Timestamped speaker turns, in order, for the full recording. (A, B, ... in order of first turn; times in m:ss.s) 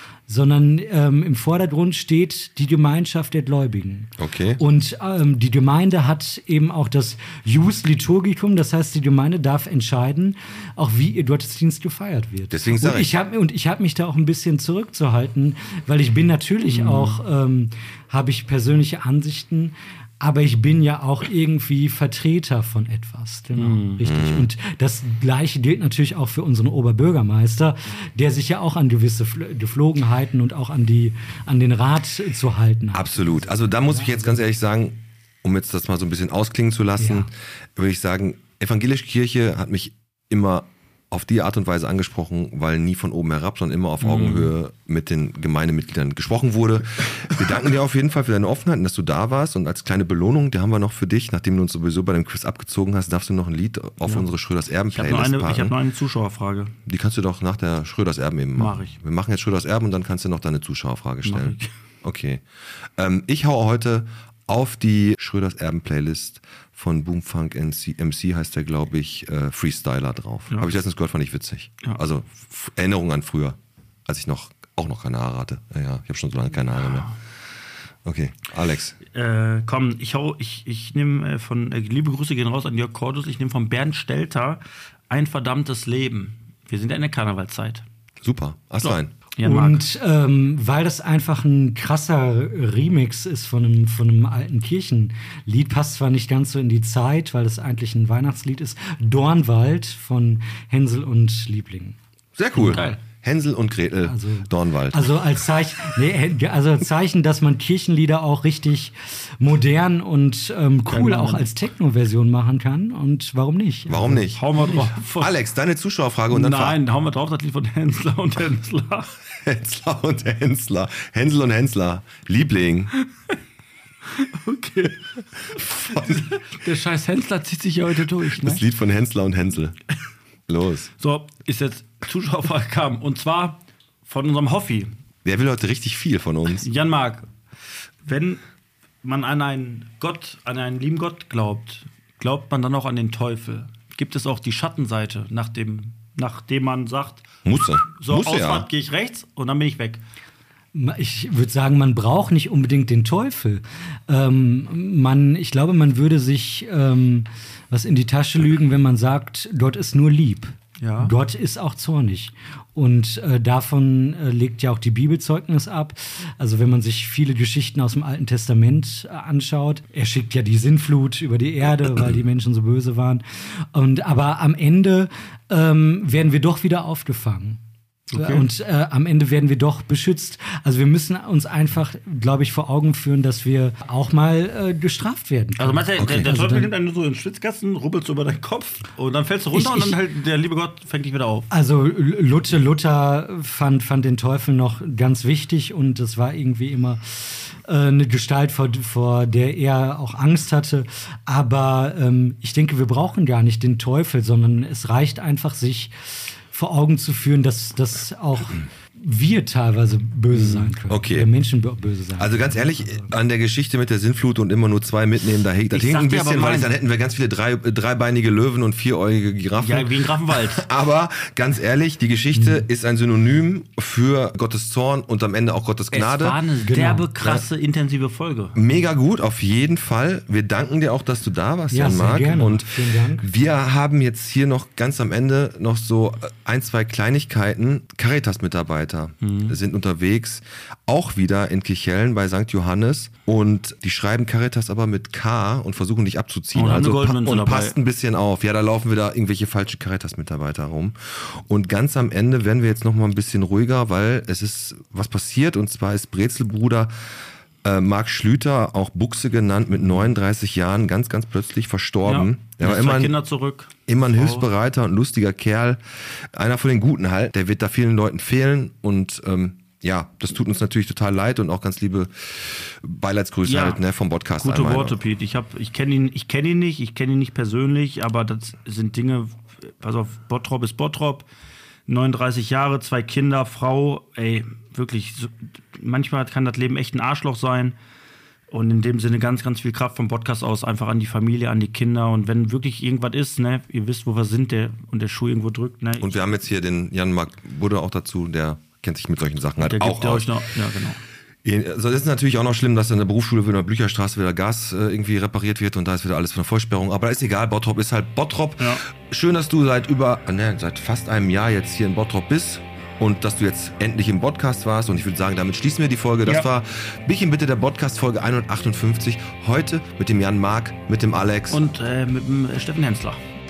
0:00.3-0:34.4 A
0:04.2-0:04.6 B
0:12.5-0:13.1 B
0:16.7-0:17.2 C
0:23.5-0:24.0 C
0:24.0-0:24.5 B
0:32.9-0:55.7 B
0:37.0-0:37.3 A
0:44.0-0:44.5 C
0:54.9-0:56.7 C
0:56.9-1:02.4 B
0:58.6-0:59.0 C
1:01.2-1:01.7 C
1:03.0-1:17.1 B
1:16.8-1:17.1 C
1:18.0-1:19.0 B
1:19.1-1:27.8 C
1:28.2-1:29.1 B
1:28.8-1:29.8 C
1:29.4-1:42.0 A
1:42.4-1:45.1 B
1:42.6-1:43.0 C
1:44.0-1:54.3 A
1:50.9-1:51.5 C
1:53.9-1:56.8 B
1:54.3-1:55.3 C
1:56.3-1:59.1 C
1:59.4-2:02.9 B
2:03.0-2:03.3 C
2:04.1-2:08.6 C
2:05.5-2:06.3 B
2:08.3-2:09.8 B
2:10.5-2:10.9 B
2:11.0-2:14.9 C
2:15.2-2:16.6 B
2:16.6-2:17.3 C
2:18.0-2:18.4 C
2:19.0-2:27.2 C
2:27.4-2:28.6 B
2:27.9-2:30.0 C
2:30.7-2:57.6 A
2:40.8-2:41.1 C
2:58.1-2:58.4 C
2:58.1-3:06.7 A
3:05.6-3:11.5 C
3:06.0-3:06.3 B
3:09.5-3:10.0 A
3:11.5-3:33.0 A
3:30.3-3:30.7 C
3:30.9-3:31.3 B
3:32.2-3:46.4 B
3:35.7-3:36.7 C
3:39.6-3:40.6 C
3:42.3-3:42.6 A
3:45.9-3:48.6 C
3:46.6-3:47.1 A
3:48.5-4:16.9 B
3:51.7-3:53.3 A
3:59.2-3:59.6 C
4:06.5-4:07.8 C
4:17.6-4:23.1 B
4:22.0-4:24.5 C
4:23.9-4:25.8 B
4:26.3-4:35.0 B
4:33.4-4:33.8 C
4:34.4-4:41.2 C
4:41.9-4:47.8 C
4:48.5-4:56.1 C
4:56.0-5:00.4 B
4:59.6-5:01.0 C
5:01.4-5:21.6 B
5:21.5-5:23.2 C